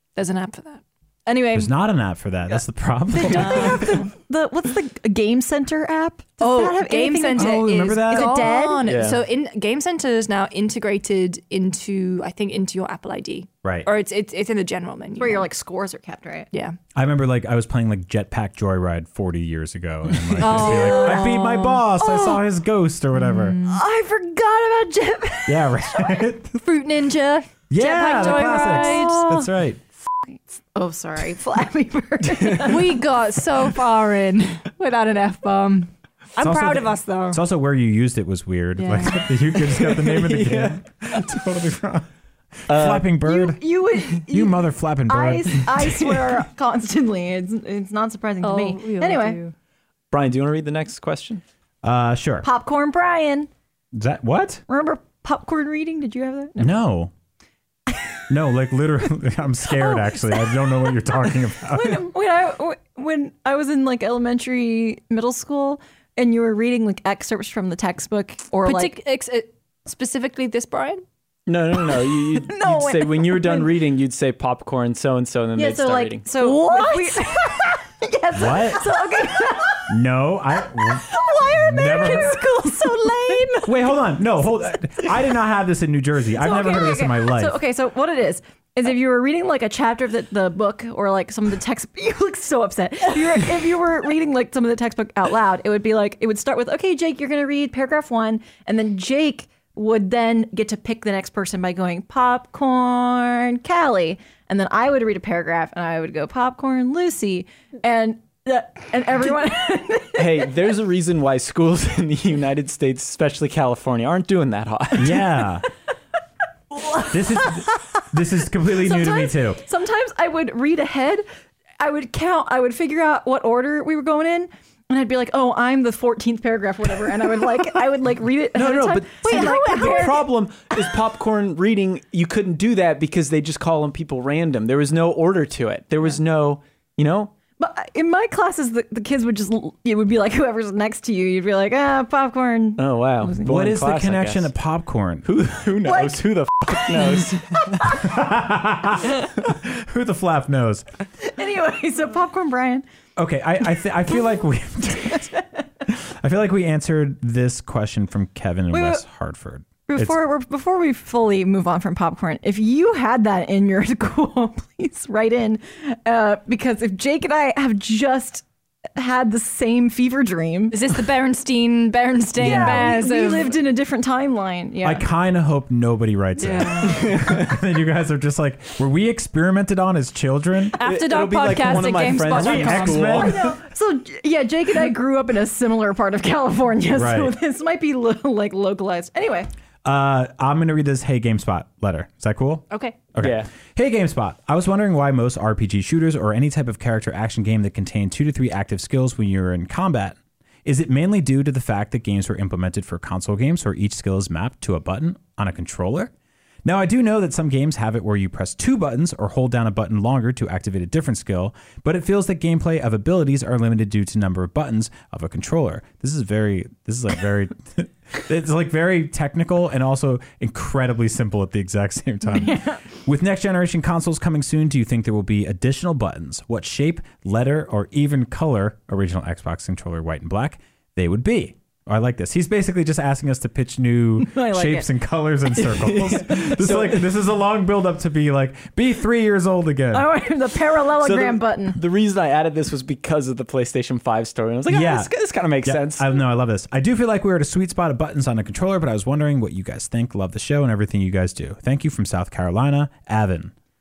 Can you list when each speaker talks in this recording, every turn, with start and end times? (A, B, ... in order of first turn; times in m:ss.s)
0:00.2-0:01.7 A
0:01.5-0:04.0 B
0:03.1-0:09.0 C
0:03.2-0:04.0 A
0:06.4-0:15.5 A
0:07.4-0:08.5 B
0:08.8-0:09.2 D
0:15.2-0:16.5 C
0:16.5-0:16.8 A
0:16.9-0:23.6 B
0:20.4-0:21.9 A
0:20.6-0:21.4 C
0:22.0-0:22.4 C
0:23.2-0:23.8 A
0:23.6-0:25.8 C
0:25.4-0:26.6 B
0:26.6-0:29.4 A
0:27.7-0:29.8 B
0:28.1-0:29.5 C
0:30.2-0:33.0 C
0:32.6-0:37.4 A
0:36.4-0:42.1 B
0:38.8-0:39.3 A
0:39.6-0:40.8 D
0:42.6-0:46.4 B
0:42.7-0:43.1 D
0:43.2-0:49.4 C
0:48.4-0:49.5 A
0:50.1-0:51.4 D
0:51.8-0:52.4 B
0:52.4-0:53.5 C
0:53.9-0:54.6 B
0:54.7-0:56.8 C
0:56.6-0:57.1 B
0:58.3-1:02.0 B
0:59.8-1:00.2 C
1:01.6-1:09.0 C
1:08.6-1:11.0 A
1:11.5-1:16.2 D
1:11.7-1:13.7 C
1:15.5-1:19.9 C
1:16.3-1:17.6 A
1:18.3-1:18.8 B
1:19.9-1:22.4 B
1:20.7-1:23.5 C
1:21.4-1:23.7 A
1:23.6-1:27.6 B
1:26.4-1:50.5 C
1:50.2-1:55.2 D
1:55.0-1:55.6 B
1:56.7-1:58.1 C
1:57.1-1:59.6 B
1:58.7-2:01.2 C
2:01.8-2:10.3 C
2:08.5-2:17.3 D
2:09.2-2:10.2 A
2:17.6-2:23.5 C
2:22.8-2:24.5 D
2:23.4-2:25.3 B
2:25.2-2:28.0 D
2:25.8-2:28.0 C
2:27.9-2:30.9 B
2:31.2-2:32.8 C
2:33.2-2:40.2 B
2:38.7-2:39.0 C
2:39.9-2:50.8 C
2:50.7-2:53.6 A
2:52.4-2:55.0 C
2:52.4-2:52.9 B
2:54.8-3:00.8 B
2:56.4-2:57.0 A
2:56.8-2:57.5 D
3:00.8-3:03.2 A
3:00.8-3:03.5 D
3:02.3-3:03.5 B
3:03.1-3:09.5 C
3:06.9-3:07.3 B
3:09.8-3:26.1 B
3:12.7-3:13.0 A
3:13.2-3:13.5 D
3:26.6-4:00.1 B
3:42.3-3:42.8 C
3:54.2-3:54.9 C
3:55.6-3:57.1 D
3:59.9-4:01.8 C
4:01.0-4:06.1 D
4:04.7-4:13.5 B